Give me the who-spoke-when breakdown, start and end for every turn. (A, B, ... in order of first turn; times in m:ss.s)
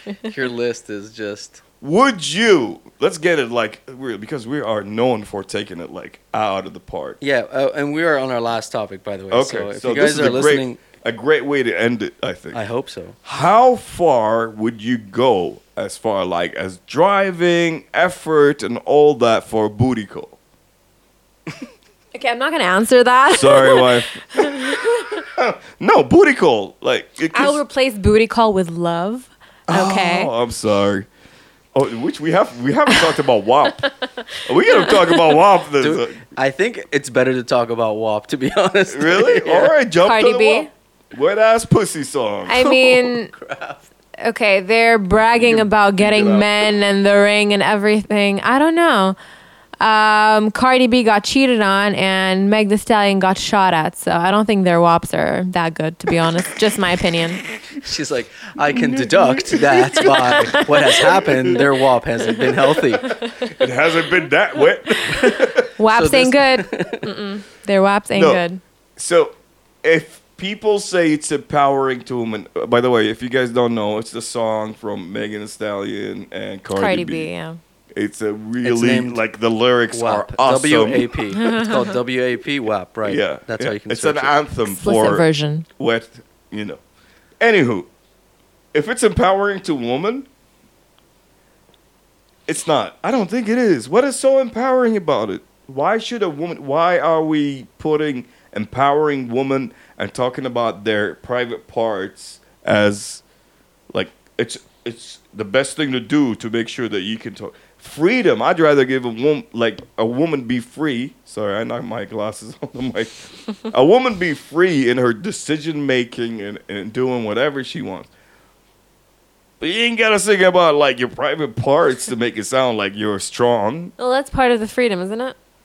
0:00.2-0:01.6 A
0:01.8-0:07.2 B
0:07.2-0:10.8 A
0:09.3-0:12.6 B
0:12.5-0:13.2 A
0:13.2-0:20.4 B
0:22.1-0:25.2 C
0:23.3-0:27.6 B
0:27.3-0:30.3 C
0:29.7-0:31.1 B
0:31.7-0:33.9 B
0:32.9-0:33.2 C
0:33.8-0:35.4 C
0:34.4-0:36.2 B
0:35.8-0:39.7 A
0:38.9-0:42.9 B
0:40.0-0:40.7 C
0:42.5-0:43.3 C
0:42.6-0:43.9 A
0:44.2-0:49.2 C
0:45.4-0:46.7 B
0:49.8-0:57.4 C
0:57.8-1:03.1 A
0:58.7-1:01.6 B
1:00.0-1:01.1 C
1:03.0-1:03.7 C
1:03.4-1:05.7 B
1:04.9-1:08.6 C
1:05.9-1:07.1 A
1:08.1-1:08.4 B
1:09.0-1:17.3 B
1:16.7-1:17.6 C
1:17.9-1:21.2 B
1:18.6-1:19.2 A
1:19.9-1:24.4 A
1:21.4-1:21.8 C
1:23.0-1:25.2 B
1:24.7-1:25.7 C
1:25.8-1:26.8 B
1:27.4-1:27.9 B
1:28.7-1:30.3 B
1:32.5-1:43.2 B
1:43.9-1:58.1 B
1:59.6-2:03.9 B
2:04.0-2:05.4 C